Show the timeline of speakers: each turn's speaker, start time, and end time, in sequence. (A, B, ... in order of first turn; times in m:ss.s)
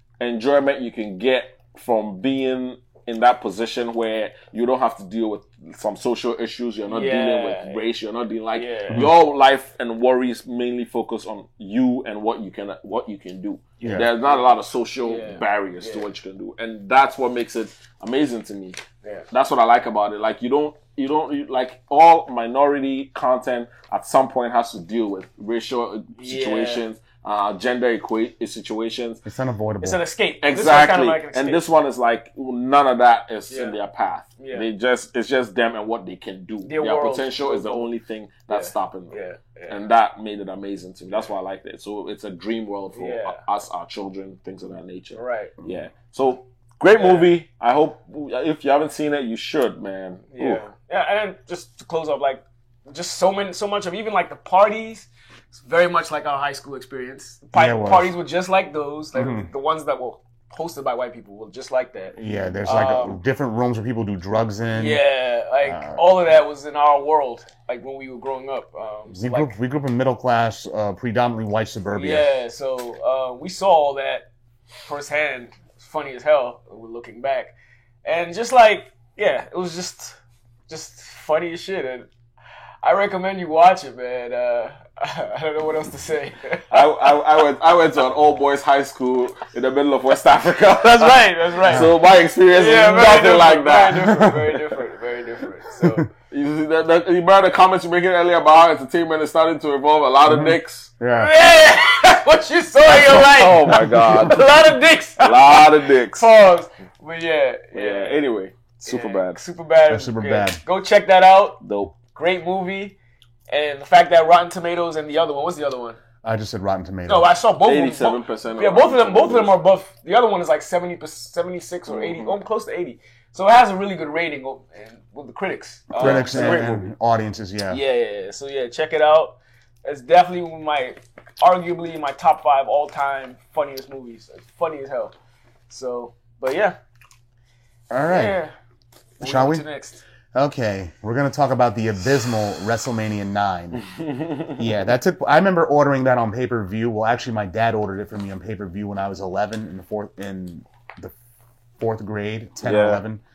0:00.2-0:18.8 A
0:06.9-0:07.8 B
0:08.5-0:09.1 B
0:13.8-0:14.1 C
0:13.8-0:14.4 B
0:15.0-0:16.1 B
0:19.3-0:29.2 A
0:26.2-0:26.8 B
0:29.2-0:30.0 C
0:29.8-0:31.6 B
0:30.4-0:39.2 A
0:33.5-0:33.8 B
0:34.4-0:34.6 B
0:36.6-0:37.8 B
0:38.5-0:39.8 B
0:39.7-0:50.6 A
0:42.9-0:43.4 B
0:45.2-0:45.5 B
0:46.9-0:47.3 B
0:50.3-1:03.2 B
0:57.5-0:58.1 C
0:59.1-0:59.5 C
1:02.2-1:05.0 C
1:04.7-1:09.5 B
1:05.6-1:06.0 C
1:09.1-1:12.3 C
1:11.9-1:14.3 B
1:14.8-1:17.5 B
1:18.0-1:20.2 B
1:20.7-1:22.1 B
1:22.8-1:27.2 B
1:26.7-1:34.3 A
1:30.7-1:31.9 B
1:32.5-1:36.1 B
1:34.1-1:34.4 C
1:36.3-1:40.9 A
1:40.2-1:41.3 C
1:41.1-1:48.2 B
1:42.8-1:44.5 A
1:43.7-1:44.4 C
1:45.2-1:46.3 A
1:47.7-1:49.4 A
1:48.8-1:51.6 B
1:49.9-1:50.6 C
1:51.6-1:51.9 A
1:52.1-1:52.9 B
1:53.5-1:56.0 B
1:56.2-1:57.3 C
1:57.1-2:06.9 B
1:57.6-1:59.6 A
2:01.9-2:02.3 A
2:05.9-2:06.8 A
2:06.0-2:07.8 C
2:07.7-2:15.1 B
2:15.7-2:16.8 B
2:17.9-2:18.4 C
2:18.0-2:18.5 B
2:19.2-2:20.0 B
2:19.2-2:19.6 C
2:20.3-2:23.8 C
2:23.9-2:24.6 A
2:24.5-2:31.1 C
2:31.8-2:33.2 C
2:32.6-2:33.0 A